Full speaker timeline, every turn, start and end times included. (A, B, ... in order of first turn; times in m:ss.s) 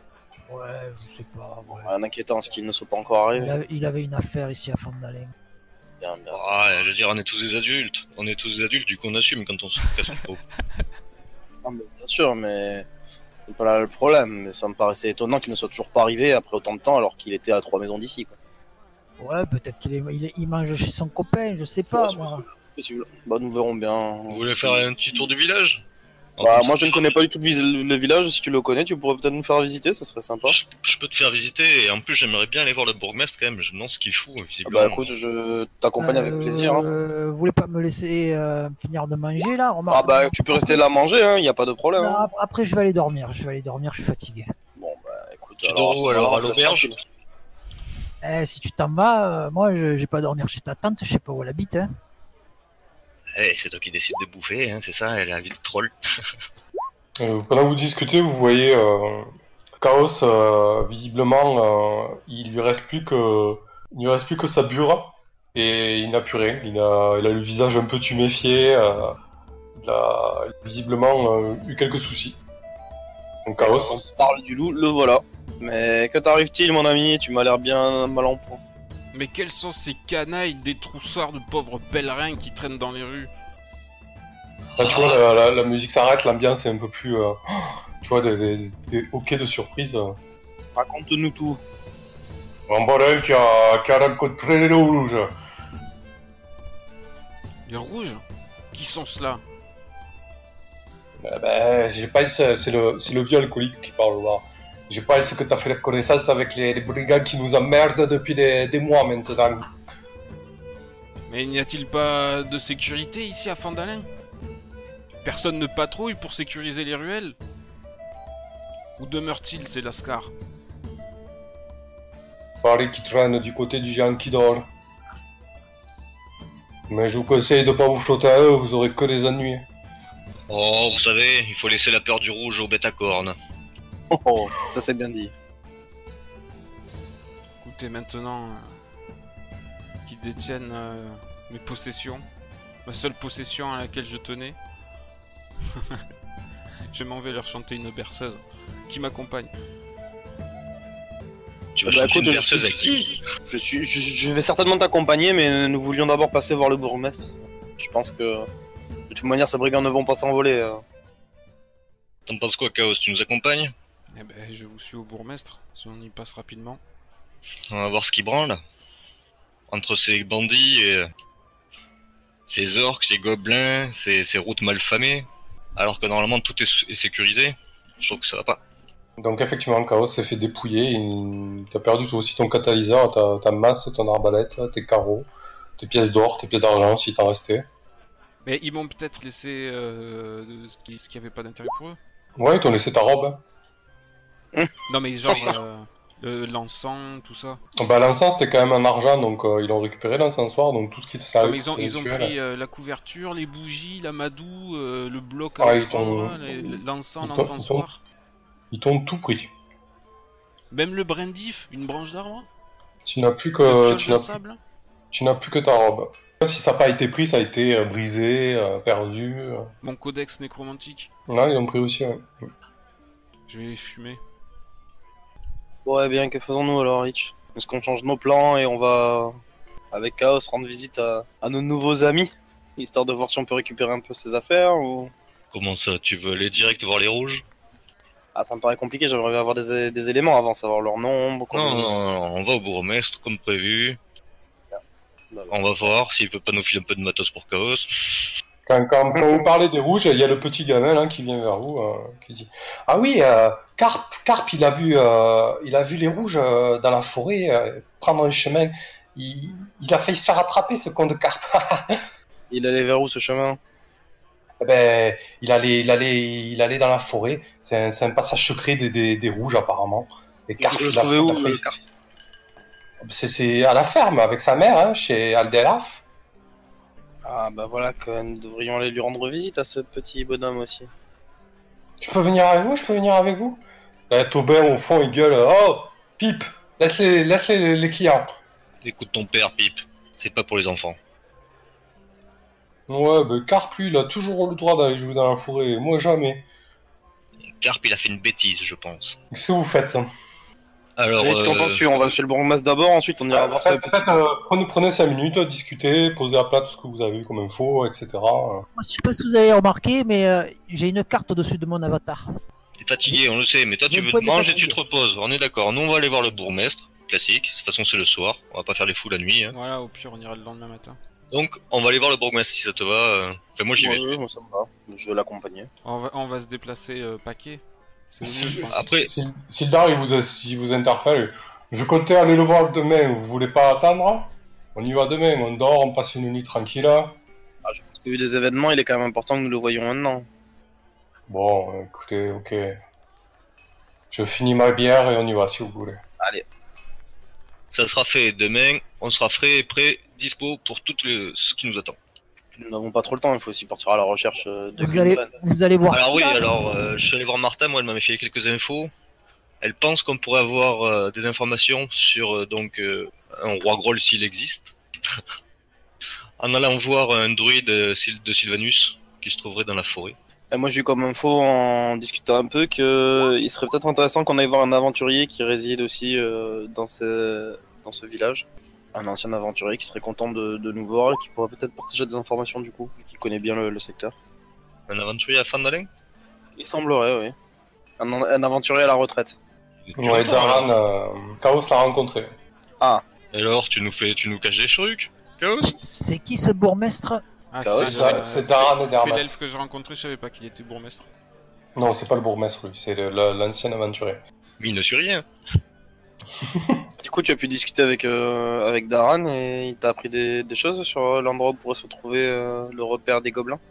0:00.5-0:01.9 A
0:01.7-0:03.6 B
0:03.4-0:05.3 A
0:06.0-0:06.5 B
0:06.3-0:10.4 C
0:11.6-0:12.9 B
0:13.5-0:18.4 B
0:19.2-0:22.4 A
0:21.9-0:25.2 B
0:24.3-0:25.8 C
0:26.4-0:27.0 C
0:26.4-0:30.6 B
0:30.5-0:35.1 C
0:34.6-0:36.8 B
0:36.0-0:40.8 A
0:39.9-0:42.3 B
0:42.0-0:44.5 A
0:44.8-0:47.0 B
0:45.6-0:46.9 C
0:48.2-0:51.9 A
0:53.3-0:55.9 C
0:57.2-1:09.2 D
1:09.8-1:12.4 D
1:13.4-1:14.1 D
1:13.6-1:18.6 B
1:19.1-1:23.3 E
1:24.8-1:25.2 C
1:24.8-1:30.2 D
1:30.8-1:31.6 B
1:32.7-1:35.3 D
1:37.6-1:39.4 E
1:41.2-1:49.7 D
1:51.3-1:54.1 E
1:55.2-1:57.4 E
1:59.0-2:00.3 E
2:02.6-2:04.7 D
2:06.9-2:09.7 D
2:10.5-2:13.4 C
2:14.1-2:15.3 B
2:17.6-2:18.8 E
2:20.0-2:22.2 E
2:22.8-2:24.6 E
2:25.6-2:26.0 E
2:26.9-2:29.5 E
2:31.7-2:33.2 C
2:31.9-2:38.5 B
2:39.1-2:40.8 B
2:42.2-2:43.7 C
2:44.1-2:46.8 E
2:47.7-2:48.6 C
2:49.7-2:51.1 C
2:52.5-2:58.6 C
2:59.2-3:07.7 D
3:08.4-3:12.0 E
3:12.4-3:13.4 D
3:14.9-3:17.6 E
3:15.3-3:15.6 B
3:17.8-3:22.3 D
3:21.4-3:28.0 E
3:25.6-3:27.8 D
3:28.7-3:29.5 D
3:30.7-3:32.5 E
3:33.0-3:34.4 D
3:33.6-3:34.6 E
3:35.1-3:39.7 D
3:39.8-3:41.1 E
3:41.3-3:42.5 D
3:43.5-3:44.2 E
3:45.8-3:49.4 B
3:49.9-3:55.1 B
3:55.5-3:57.4 C
3:58.3-4:02.0 B
4:01.5-4:04.0 C
4:05.3-4:05.9 B
4:05.5-4:08.3 C
4:08.6-4:22.0 D
4:22.5-4:23.6 B
4:24.6-4:31.6 D
4:30.6-4:31.8 B
4:33.0-4:36.0 D
4:37.2-4:40.9 B
4:42.0-4:48.3 D
4:48.8-4:51.0 C
4:52.9-4:56.4 D
4:57.5-4:59.2 C
4:59.3-5:00.0 D
5:01.0-5:01.8 C
5:01.2-5:04.1 B
5:03.3-5:08.7 D
5:08.7-5:12.2 A
5:12.8-5:19.6 C
5:13.9-5:14.8 A
5:19.5-5:21.0 E
5:21.3-5:24.1 C
5:23.8-5:25.7 B
5:25.8-5:28.9 E
5:28.2-5:37.2 D
5:28.7-5:29.1 C
5:37.6-5:40.3 B
5:41.3-5:42.8 D
5:44.1-5:46.0 D
5:46.2-5:46.4 B
5:47.7-5:52.0 C
5:52.5-5:55.3 B
5:54.8-5:56.5 A
5:55.9-5:58.9 C
5:59.6-6:05.2 C
6:06.4-6:10.2 C
6:10.5-6:24.2 B
6:24.9-6:25.9 C
6:26.6-6:27.3 B
6:28.0-6:29.4 B
6:29.8-6:30.7 C
6:30.0-6:32.3 D
6:33.3-6:35.8 C
6:35.6-6:37.2 A
6:37.5-6:41.1 E
6:37.6-6:38.2 B
6:37.8-6:39.3 D
6:41.8-6:44.2 D
6:44.6-6:45.2 C
6:46.4-6:46.8 D
6:47.0-6:53.6 B